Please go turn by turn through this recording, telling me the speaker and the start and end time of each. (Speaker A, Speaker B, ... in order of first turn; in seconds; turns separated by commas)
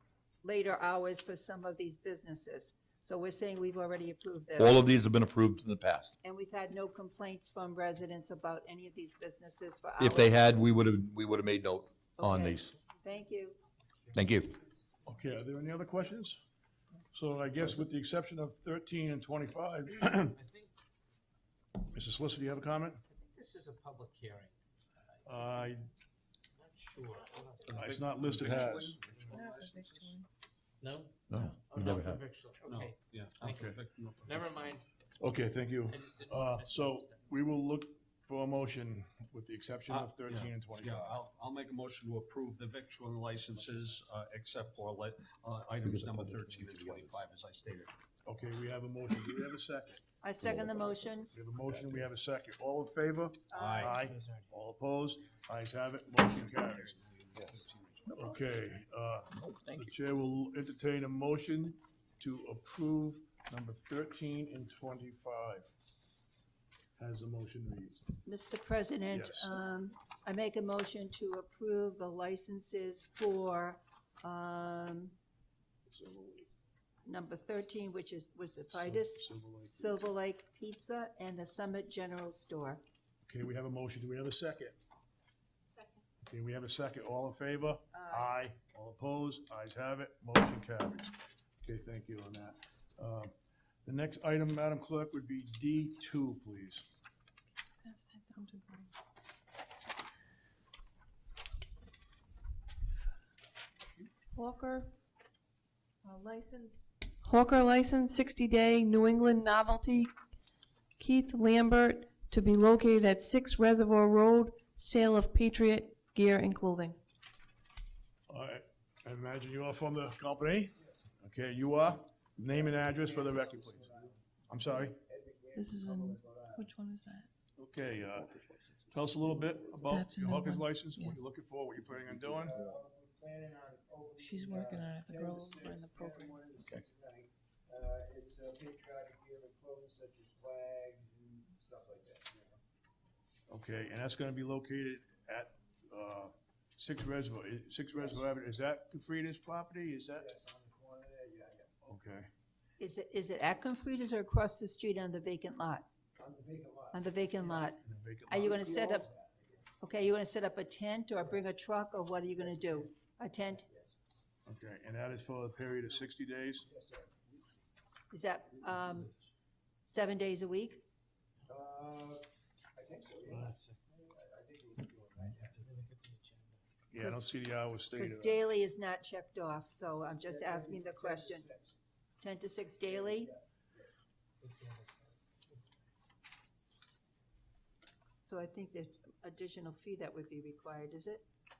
Speaker A: 0.4-4.8, Speaker B: 4.6-6.2, Speaker A: 6.2-10.4, Speaker B: 10.0-12.7, Speaker A: 12.2-13.6, Speaker B: 14.1-14.5, Speaker C: 15.0-16.4, Speaker C: 17.1-20.3, Speaker D: 20.1-20.7, Speaker C: 21.8-23.0, Speaker D: 23.1-24.5, Speaker D: 25.1-25.7, Speaker C: 25.2-25.9, Speaker D: 26.6-27.8, Speaker E: 27.6-30.2, Speaker C: 27.7-29.0, Speaker D: 29.1-29.5, Speaker F: 29.3-30.1, Speaker D: 30.8-34.9, Speaker B: 31.3-32.2, Speaker E: 32.6-34.7, Speaker C: 33.4-33.8, Speaker C: 35.2-41.2, Speaker D: 35.9-37.3, Speaker E: 39.9-47.9, Speaker D: 43.3-44.2, Speaker B: 45.8-47.2, Speaker C: 48.2-50.0, Speaker A: 50.2-51.3, Speaker B: 50.4-50.8, Speaker C: 51.3-57.0, Speaker E: 51.7-52.1, Speaker A: 53.5-54.0, Speaker E: 53.5-54.0, Speaker D: 53.9-54.5, Speaker E: 56.5-58.4, Speaker C: 58.1-65.7, Speaker B: 59.3-59.9, Speaker C: 67.0-68.0, Speaker A: 68.2-75.2, Speaker C: 69.1-69.5, Speaker C: 75.9-76.5, Speaker A: 77.0-82.8, Speaker C: 78.7-80.0, Speaker C: 83.2-84.8, Speaker A: 85.7-86.0, Speaker C: 86.2-93.3, Speaker A: 87.9-88.3, Speaker C: 93.8-96.9, Speaker F: 97.8-98.9, Speaker F: 104.3-104.9, Speaker F: 106.0-110.1, Speaker F: 111.0-117.0, Speaker C: 118.3-123.9, Speaker G: 122.5-124.2, Speaker C: 124.5-125.0, Speaker G: 124.9-126.7, Speaker F: 125.5-127.3, Speaker C: 127.6-128.3, Speaker E: 128.1-128.7, Speaker C: 128.9-132.6, Speaker F: 129.8-131.2, Speaker G: 132.4-142.6, Speaker F: 134.2-136.3, Speaker C: 143.5-150.2, Speaker G: 147.9-148.2, Speaker G: 150.1-151.7, Speaker C: 151.8-152.3, Speaker A: 152.8-155.8, Speaker G: 156.2-157.7, Speaker A: 156.9-159.1, Speaker C: 157.8-158.7, Speaker G: 158.4-159.7, Speaker A: 159.8-163.7, Speaker G: 161.2-161.5, Speaker G: 162.3-162.9, Speaker G: 163.5-163.9, Speaker C: 164.4-166.7, Speaker G: 166.6-167.5, Speaker A: 168.1-169.1, Speaker A: 169.8-170.8, Speaker G: 171.4-175.7, Speaker D: 175.4-176.6, Speaker C: 176.9-178.4, Speaker A: 177.9-181.5, Speaker G: 180.2-181.8, Speaker A: 182.2-183.3, Speaker G: 182.9-183.9, Speaker D: 184.4-184.9, Speaker A: 188.2-191.2